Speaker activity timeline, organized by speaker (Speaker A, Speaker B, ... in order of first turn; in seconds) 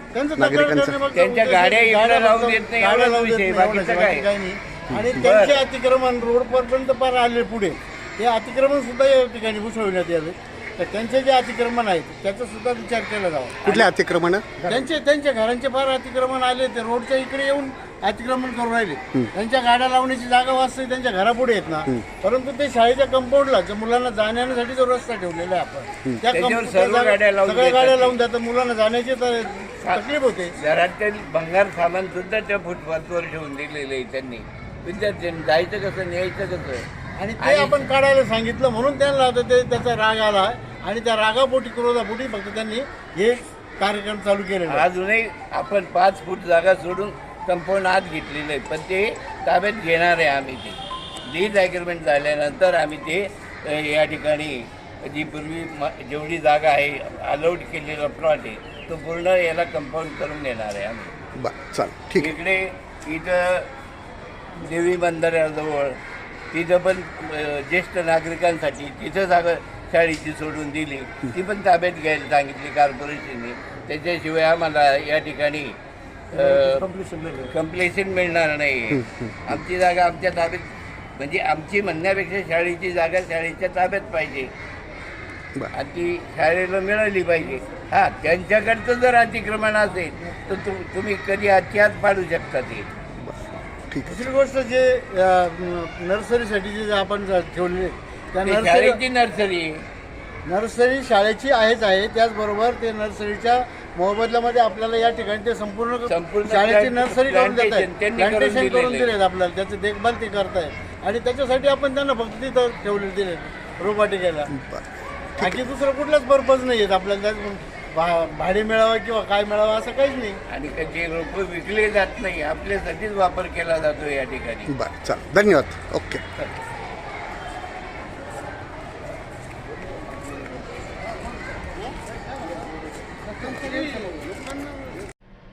Speaker A: 0.1-13.9, 14.7-30.6, 37.2-44.9, 76.8-77.4, 94.1-99.0, 100.5-114.5, 115.4-120.4, 133.3-134.5
Speaker B: 0.3-1.0, 13.6-14.9, 61.4-62.3, 78.9-79.4, 93.2-94.2, 114.5-114.8, 115.4-115.6, 124.7-126.2
Speaker C: 1.1-4.3, 5.2-5.6, 26.3-28.2, 30.6-36.8, 37.4-37.9, 44.6-61.1, 62.2-63.7, 64.6-66.0, 66.5-75.8, 76.3-76.9, 77.4-80.7, 81.2-84.5, 85.7-92.9, 98.4-99.8, 106.0-109.2, 120.5-124.7